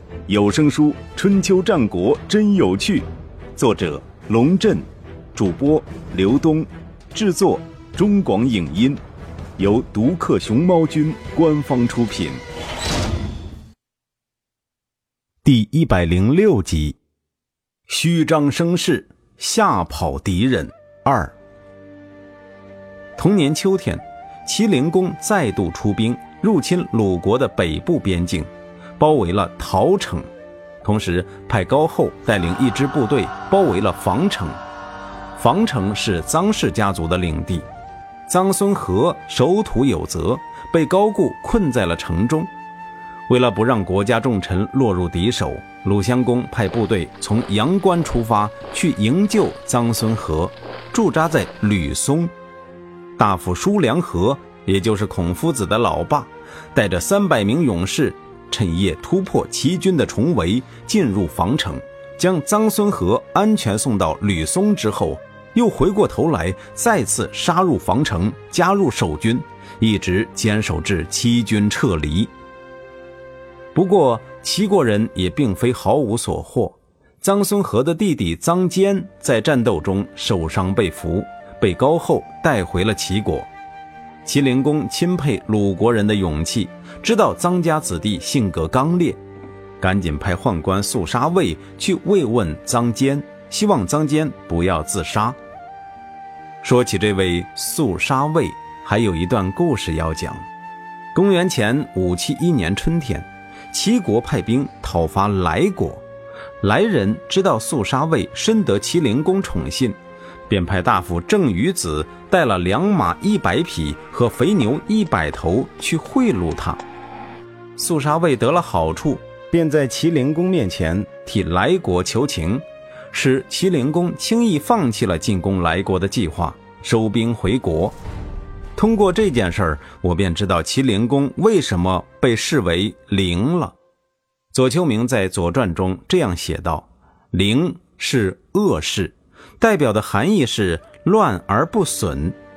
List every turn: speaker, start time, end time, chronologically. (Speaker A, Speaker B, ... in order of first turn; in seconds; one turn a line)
Speaker A: 0.3-9.0
Speaker A: 9.6-12.4
Speaker A: 15.4-17.0
Speaker A: 17.9-21.4
Speaker A: 23.2-30.3
Speaker A: 30.8-34.6
Speaker A: 35.4-37.7
Speaker A: 38.3-42.5
Speaker A: 43.3-52.3
Speaker A: 53.2-72.3
Speaker A: 73.8-83.5
Speaker A: 84.2-89.2
Speaker A: 89.8-95.4
Speaker A: 96.6-100.5
Speaker A: 101.1-106.0
Speaker A: 106.6-110.0
Speaker A: 110.5-116.8
Speaker A: 117.8-128.0
Speaker A: 128.8-133.8
Speaker A: 134.5-142.4